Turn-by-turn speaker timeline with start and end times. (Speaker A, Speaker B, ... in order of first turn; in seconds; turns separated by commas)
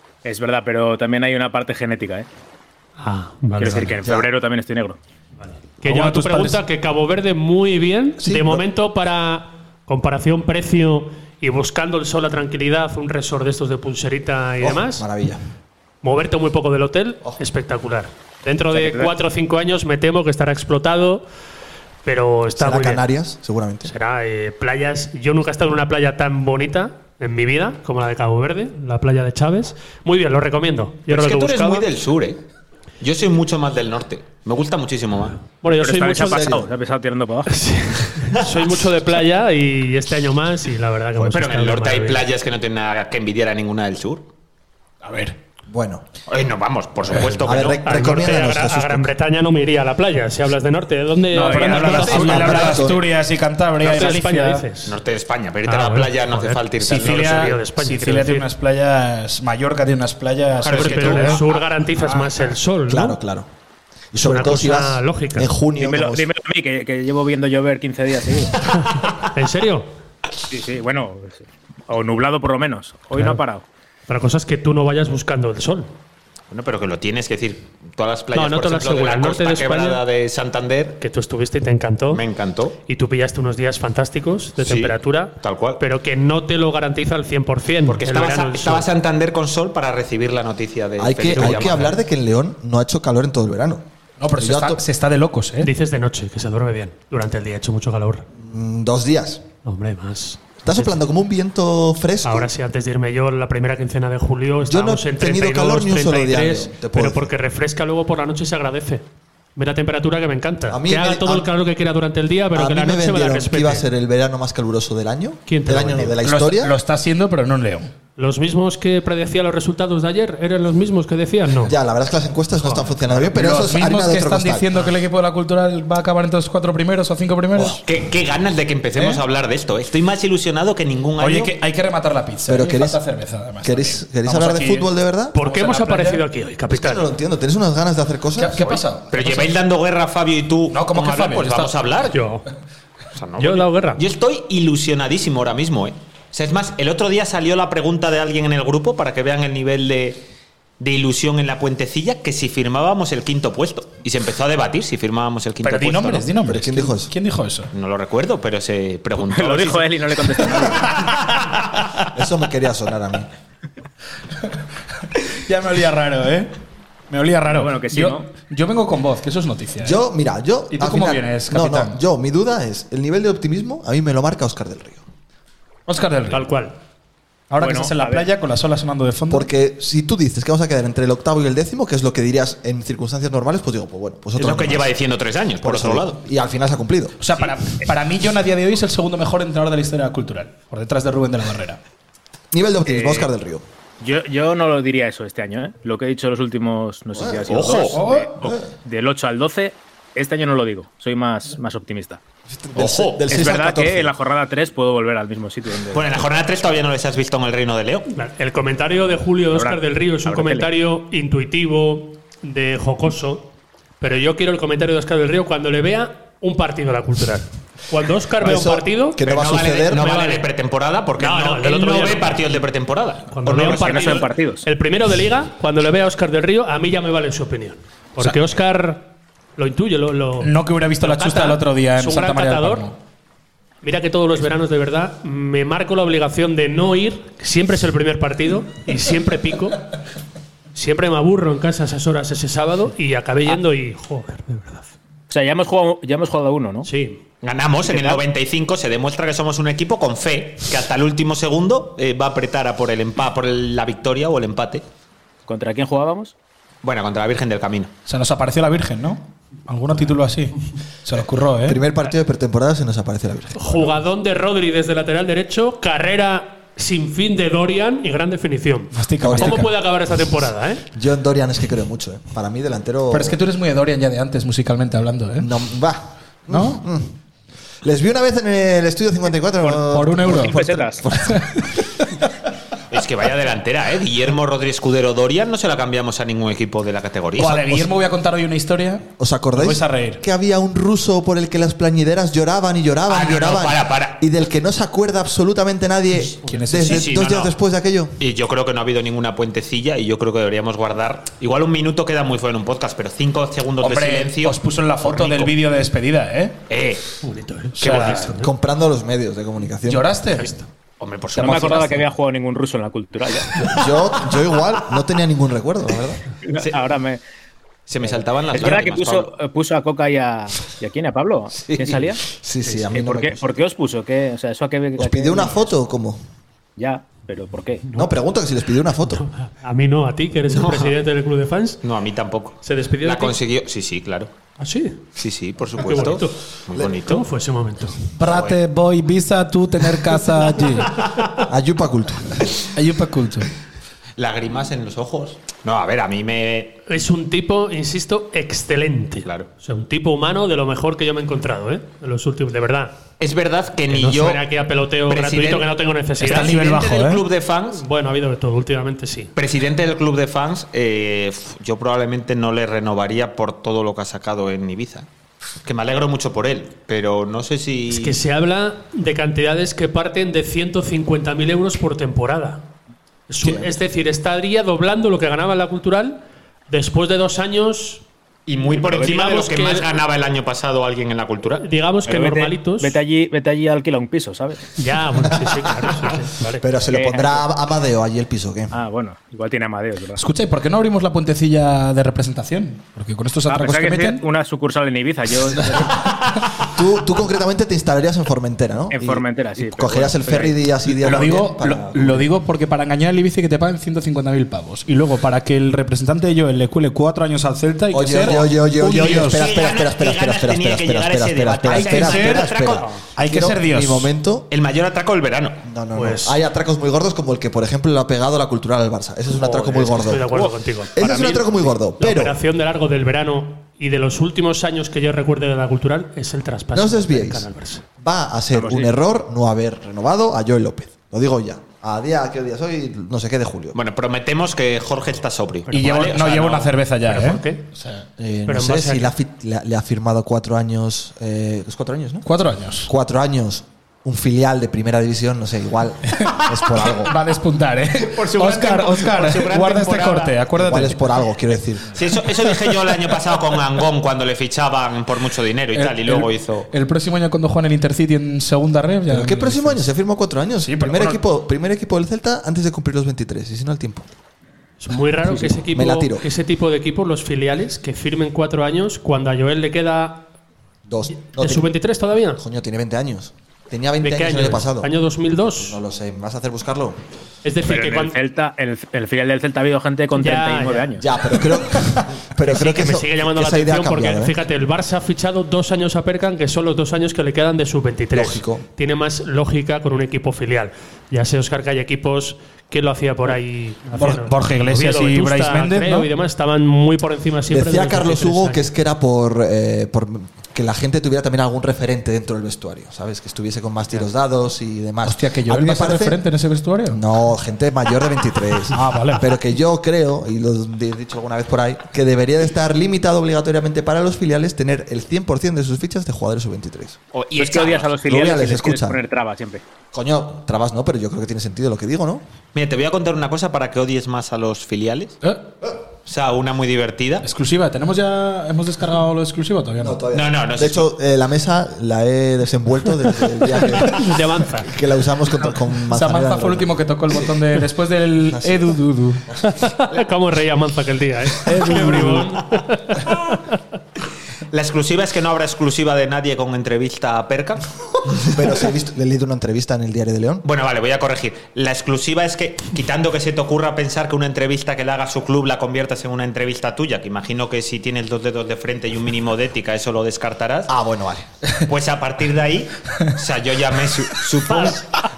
Speaker A: 0.2-2.3, Speaker B: 3.0-3.9, Speaker A: 3.6-5.0, Speaker C: 4.0-4.3, Speaker B: 5.5-15.1, Speaker D: 5.8-6.6, Speaker C: 8.2-8.7, Speaker C: 14.6-15.4, Speaker B: 16.0-21.2, Speaker A: 18.7-19.1, Speaker B: 22.1-23.0, Speaker C: 22.6-23.9, Speaker B: 23.9-31.9, Speaker E: 31.1-32.4, Speaker E: 33.0-35.4, Speaker B: 35.6-36.6, Speaker A: 35.7-37.6, Speaker C: 36.2-36.7, Speaker B: 37.5-42.3, Speaker E: 41.2-44.2, Speaker D: 45.0-45.4, Speaker C: 45.7-46.0, Speaker E: 46.3-47.8, Speaker B: 47.2-52.9, Speaker C: 47.4-49.1, Speaker D: 51.3-54.6, Speaker C: 51.8-53.1, Speaker B: 53.8-54.9, Speaker E: 54.9-57.6, Speaker B: 55.6-58.5, Speaker D: 56.8-62.5, Speaker E: 60.6-61.5, Speaker B: 60.7-63.2, Speaker C: 62.9-63.5, Speaker C: 64.1-66.3, Speaker B: 64.2-65.5, Speaker A: 65.8-68.5, Speaker B: 69.3-69.9, Speaker A: 70.5-73.6, Speaker B: 73.2-73.4, Speaker B: 74.1-75.9, Speaker E: 76.5-81.0, Speaker B: 78.3-80.0, Speaker B: 81.0-82.2, Speaker E: 82.1-82.8, Speaker B: 82.9-88.9, Speaker E: 84.6-85.8, Speaker E: 87.9-91.9, Speaker C: 91.0-93.8, Speaker B: 91.4-91.9, Speaker D: 94.2-95.7, Speaker C: 94.4-94.8, Speaker B: 95.6-98.3, Speaker C: 98.4-99.4, Speaker B: 99.6-100.9, Speaker C: 100.6-102.5, Speaker B: 102.2-109.0, Speaker C: 104.6-107.3, Speaker B: 109.6-113.8, Speaker C: 110.7-111.5, Speaker C: 112.5-116.8, Speaker B: 115.5-116.2, Speaker D: 116.2-117.9, Speaker B: 118.2-121.7, Speaker C: 121.7-124.8, Speaker D: 122.6-127.8, Speaker E: 127.9-131.6, Speaker D: 128.9-129.2, Speaker D: 131.2-136.2, Speaker C: 132.4-133.0, Speaker C: 133.6-135.3, Speaker B: 135.3-137.1, Speaker C: 136.7-138.6, Speaker D: 138.4-139.6, Speaker E: 138.6-142.1, Speaker D: 140.7-142.1, Speaker B: 142.1-142.4, Speaker E: 143.2-150.2, Speaker B: 143.4-144.0, Speaker E: 150.8-156.3, Speaker D: 155.6-157.7, Speaker C: 156.5-157.1, Speaker E: 157.7-160.0, Speaker A: 159.2-160.8, Speaker C: 162.1-163.3, Speaker D: 165.2-166.5, Speaker D: 167.1-170.0, Speaker A: 167.4-168.3, Speaker C: 169.8-175.0, Speaker D: 170.7-172.0, Speaker D: 175.9-176.5, Speaker B: 176.3-176.7, Speaker D: 177.5-179.5, Speaker A: 177.6-178.3, Speaker C: 179.3-184.9, Speaker E: 184.3-186.2, Speaker C: 185.6-187.2, Speaker D: 187.2-191.8, Speaker C: 192.5-193.6, Speaker A: 192.8-193.3, Speaker A: 194.0-202.2, Speaker C: 197.1-198.7, Speaker E: 197.5-197.9, Speaker D: 197.9-198.3, Speaker C: 202.5-204.1, Speaker E: 202.8-203.2, Speaker A: 203.3-206.2, Speaker E: 205.9-208.1, Speaker B: 208.1-213.5, Speaker A: 209.5-210.7, Speaker B: 214.0-219.2, Speaker C: 218.4-220.1, Speaker E: 219.2-224.3, Speaker B: 219.9-220.4, Speaker B: 221.2-222.4, Speaker B: 223.3-232.9, Speaker A: 223.6-224.7, Speaker D: 230.4-232.9, Speaker B: 233.8-239.8, Speaker B: 240.8-244.9, Speaker A: 245.3-246.9, Speaker B: 246.8-247.2, Speaker E: 247.4-254.8, Speaker A: 247.8-248.2, Speaker A: 255.5-256.3, Speaker E: 256.8-257.9, Speaker D: 258.1-261.8, Speaker C: 261.6-263.9, Speaker B: 263.6-270.8, Speaker D: 268.9-269.7, Speaker C: 269.2-269.7, Speaker C: 270.9-273.4, Speaker D: 273.1-275.5, Speaker C: 275.4-277.1, Speaker D: 276.5-276.8, Speaker C: 277.8-282.0, Speaker A: 279.6-281.1, Speaker D: 279.9-280.6, Speaker E: 282.9-287.9, Speaker D: 287.4-290.2, Speaker C: 289.2-298.1, Speaker E: 293.1-294.2, Speaker D: 296.4-297.1, Speaker E: 296.9-297.5, Speaker E: 298.2-305.6, Speaker D: 303.8-306.6, Speaker E: 306.7-307.1, Speaker B: 307.2-308.5, Speaker D: 307.8-308.3, Speaker E: 307.8-308.3, Speaker C: 307.8-310.2, Speaker D: 309.9-310.5, Speaker E: 311.0-312.1, Speaker A: 311.3-313.7, Speaker D: 311.4-311.7, Speaker C: 313.6-316.2, Speaker A: 316.5-317.2, Speaker E: 316.6-316.8, Speaker E: 317.9-319.3, Speaker A: 318.1-322.2, Speaker C: 321.5-323.4, Speaker A: 322.9-325.8, Speaker C: 325.0-326.2, Speaker A: 326.8-327.8, Speaker C: 327.9-329.2, Speaker B: 329.1-331.8, Speaker E: 330.5-330.9, Speaker E: 331.8-334.3, Speaker B: 332.6-333.4, Speaker B: 334.6-335.0, Speaker E: 335.2-337.2, Speaker B: 335.8-336.4, Speaker B: 337.0-338.0, Speaker D: 338.2-340.9, Speaker E: 338.3-338.6, Speaker C: 341.5-342.5, Speaker D: 342.8-343.5, Speaker E: 344.2-346.8, Speaker B: 346.9-352.9, Speaker E: 353.2-354.4, Speaker B: 353.9-356.6, Speaker E: 355.1-357.8, Speaker D: 356.2-357.3, Speaker B: 357.8-359.3, Speaker E: 359.4-365.1, Speaker E: 365.6-368.2, Speaker B: 367.9-372.7, Speaker B: 373.3-378.0, Speaker C: 373.4-373.8, Speaker E: 378.5-381.6, Speaker B: 378.8-379.9, Speaker B: 381.6-383.0, Speaker A: 382.1-384.7, Speaker B: 384.8-386.6, Speaker C: 385.5-385.9, Speaker C: 386.6-388.7, Speaker A: 386.9-387.4, Speaker A: 388.7-390.2, Speaker D: 390.2-394.2, Speaker A: 393.5-396.2, Speaker C: 396.7-402.3, Speaker A: 398.9-400.6, Speaker D: 401.0-409.5, Speaker C: 407.9-414.5, Speaker E: 408.9-412.9, Speaker D: 411.7-412.5, Speaker D: 413.2-414.1, Speaker E: 414.5-415.6, Speaker C: 415.6-420.4, Speaker B: 415.9-416.4, Speaker B: 419.4-427.8, Speaker C: 420.9-422.4, Speaker C: 426.7-427.5, Speaker C: 428.0-433.8, Speaker A: 428.5-428.9, Speaker E: 433.7-436.8, Speaker D: 435.7-438.1, Speaker B: 437.1-437.6, Speaker C: 438.2-442.3, Speaker B: 438.5-439.1, Speaker D: 442.2-442.9, Speaker C: 442.8-447.1, Speaker D: 446.2-451.0, Speaker E: 448.1-450.4, Speaker C: 450.6-451.9, Speaker E: 451.9-456.7, Speaker D: 455.7-459.8, Speaker C: 459.1-464.1, Speaker D: 460.6-461.2, Speaker B: 464.8-470.3, Speaker C: 465.6-466.2, Speaker C: 470.9-471.7, Speaker B: 471.3-472.4, Speaker C: 472.4-474.9, Speaker B: 474.0-475.8, Speaker C: 475.5-477.0, Speaker B: 477.4-478.2, Speaker A: 477.6-481.1, Speaker B: 480.2-480.9, Speaker C: 481.0-484.4, Speaker B: 482.4-498.7, Speaker C: 488.1-488.6, Speaker D: 493.9-496.1, Speaker C: 497.5-506.2, Speaker D: 505.1-507.0, Speaker C: 506.9-517.0, Speaker D: 508.7-509.2, Speaker E: 517.1-518.0, Speaker A: 517.4-519.6, Speaker C: 518.1-519.0, Speaker C: 519.9-522.2, Speaker E: 522.5-525.1, Speaker E: 526.1-527.2, Speaker D: 527.2-530.0, Speaker C: 529.8-536.7, Speaker E: 530.1-530.9, Speaker B: 533.6-534.7, Speaker D: 535.9-539.2, Speaker C: 538.3-538.8, Speaker B: 539.5-543.6, Speaker D: 541.4-542.3, Speaker E: 544.5-548.2, Speaker C: 548.2-550.4, Speaker E: 550.4-560.7, Speaker C: 560.7-561.3, Speaker E: 561.6-564.9